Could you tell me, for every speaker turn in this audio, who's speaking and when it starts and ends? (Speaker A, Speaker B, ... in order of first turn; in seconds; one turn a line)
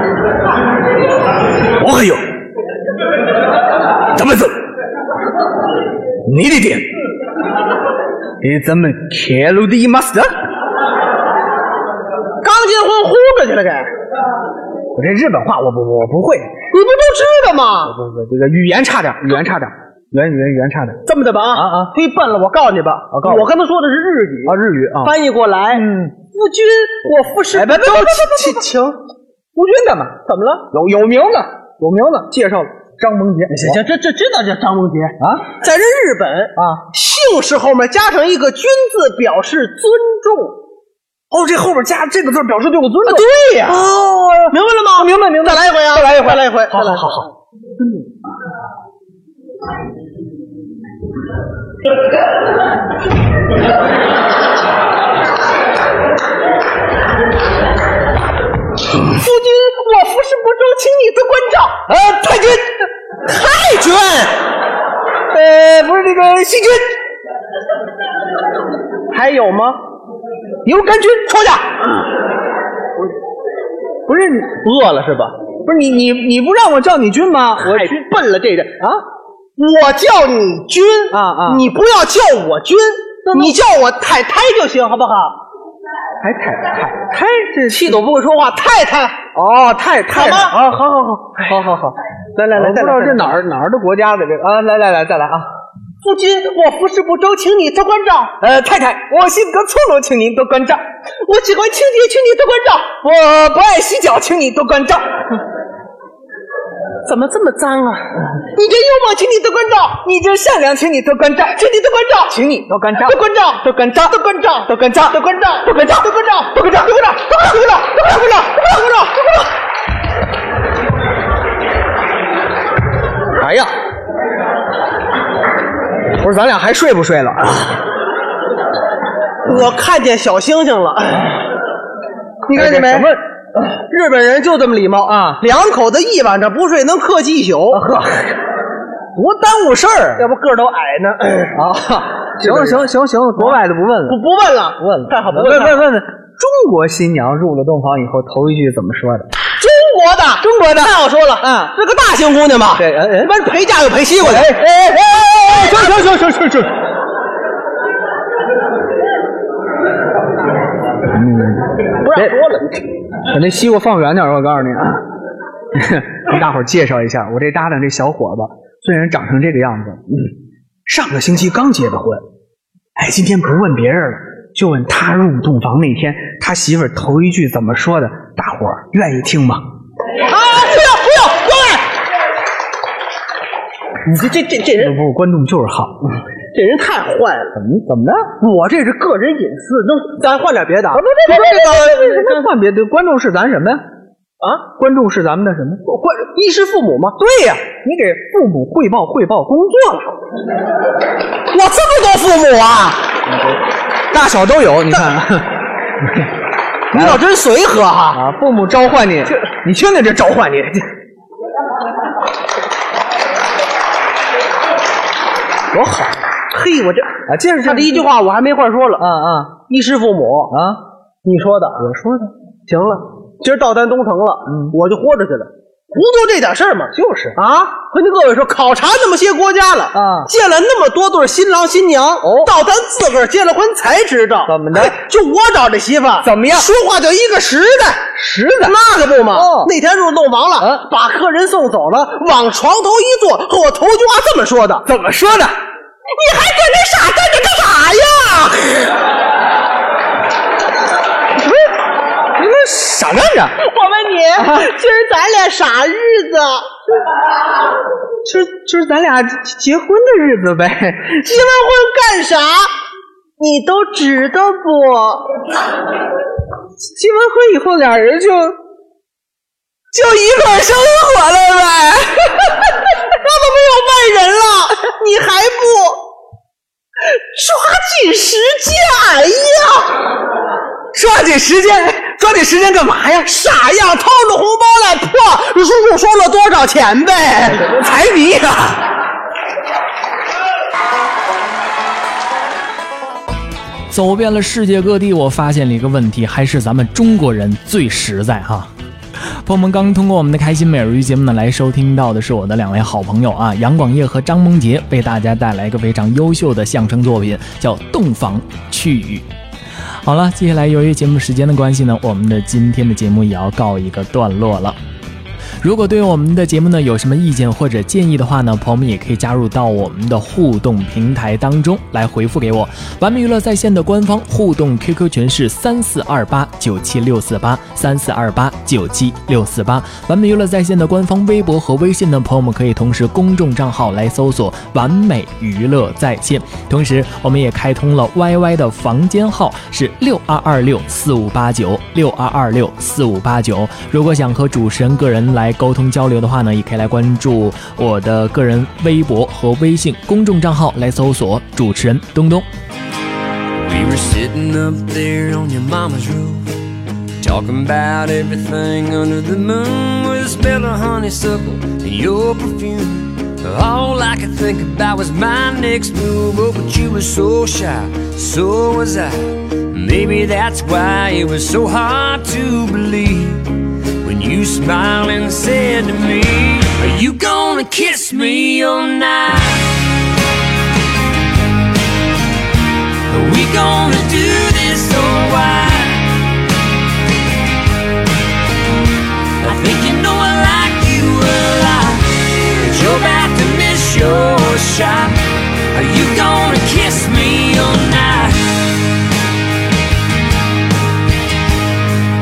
Speaker A: 1.8-2.3
Speaker A: 4.1-4.6
Speaker A: 6.2-6.9
Speaker A: 8.4-10.3
Speaker B: 12.4-13.9
Speaker A: 14.9-16.5
Speaker B: 16.7-17.9
Speaker A: 17.9-21.0
Speaker B: 21.1-29.0
Speaker A: 21.5-21.9
Speaker A: 23.1-23.5
Speaker A: 24.4-25.1
Speaker A: 25.7-26.2
Speaker A: 27.5-28.7
Speaker A: 29.6-33.8
Speaker B: 30.3-30.7
Speaker B: 33.5-40.6
Speaker A: 35.2-35.5
Speaker A: 36.6-36.9
Speaker A: 41.3-47.3
Speaker B: 43.1-43.9
Speaker B: 44.5-47.3
Speaker B: 59.1-61.8
Speaker A: 61.9-62.8
Speaker B: 63.2-64.4
Speaker A: 65.3-67.0
Speaker B: 69.1-69.8
Speaker A: 70.7-71.8
Speaker A: 74.1-74.6
Speaker B: 74.6-75.3
Speaker A: 75.6-78.0
Speaker B: 77.6-78.9
Speaker B: 79.6-85.4
Speaker A: 81.1-81.7
Speaker A: 83.3-83.6
Speaker A: 86.2-88.0
Speaker B: 87.7-89.3
Speaker A: 89.3-90.8
Speaker B: 90.1-91.6
Speaker A: 91.4-92.0
Speaker B: 92.3-93.3
Speaker A: 92.5-95.5
Speaker B: 96.0-98.4
Speaker A: 98.4-100.8
Speaker B: 101.2-103.0
Speaker A: 103.0-105.0
Speaker B: 107.0-110.0
Speaker A: 110.0-117.0
Speaker B: 111.5-112.3
Speaker B: 113.0-119.4
Speaker B: 123.4-123.7
Speaker A: 126.2-127.8
Speaker B: 129.4-131.4
Speaker B: 132.5-137.8
Speaker A: 132.5-133.2
Speaker A: 135.1-135.4
Speaker A: 137.7-138.4
Speaker A: 139.2-140.3
Speaker B: 140.2-141.6
Speaker A: 141.5-144.2
Speaker B: 142.4-145.9
Speaker A: 144.8-149.3
Speaker B: 149.6-154.5
Speaker A: 150.4-151.7
Speaker A: 152.8-153.3
Speaker A: 154.2-156.8
Speaker B: 155.5-155.9
Speaker A: 161.1-162.4
Speaker B: 162.0-162.9
Speaker A: 163.2-165.0
Speaker A: 165.7-170.3
Speaker A: 170.9-172.2
Speaker A: 173.0-179.7
Speaker B: 180.2-181.9
Speaker B: 184.0-185.0
Speaker A: 184.8-186.1
Speaker B: 186.5-187.6
Speaker A: 187.5-188.3
Speaker B: 188.4-192.5
Speaker A: 190.9-193.8
Speaker B: 194.4-194.7
Speaker A: 194.7-195.8
Speaker B: 195.9-197.2
Speaker A: 197.2-200.2
Speaker B: 201.5-203.1
Speaker A: 204.1-206.3
Speaker B: 206.9-208.2
Speaker A: 206.9-207.2
Speaker A: 208.1-210.9
Speaker A: 215.7-216.2
Speaker B: 216.5-219.1
Speaker A: 217.3-218.1
Speaker A: 219.0-219.6
Speaker B: 219.6-220.6
Speaker A: 220.5-220.8
Speaker B: 221.2-244.9
Speaker A: 224.5-224.8
Speaker A: 226.9-227.4
Speaker A: 229.9-230.3
Speaker A: 232.2-232.5
Speaker A: 234.5-235.0
Speaker A: 236.2-236.7
Speaker A: 238.2-238.8
Speaker A: 239.3-239.7
Speaker A: 240.6-240.8
Speaker A: 244.8-245.6
Speaker B: 246.1-249.0
Speaker A: 252.3-253.6
Speaker B: 253.6-256.7
Speaker A: 254.3-254.7
Speaker A: 258.2-261.4
Speaker B: 261.2-262.7
Speaker B: 263.4-265.3
Speaker A: 266.9-268.6
Speaker A: 269.9-272.8
Speaker B: 273.1-276.1
Speaker B: 277.0-280.1
Speaker A: 280.9-283.3
Speaker B: 283.2-287.7
Speaker A: 287.5-288.9
Speaker C: 293.9-298.7
Speaker C: 299.4-309.3
Speaker C: 310.0-314.8
Speaker C: 315.6-352.5
Speaker D: 353.6-356.6
Speaker D: 357.2-379.8
Speaker D: 383.1-386.2
Speaker D: 389.4-398.7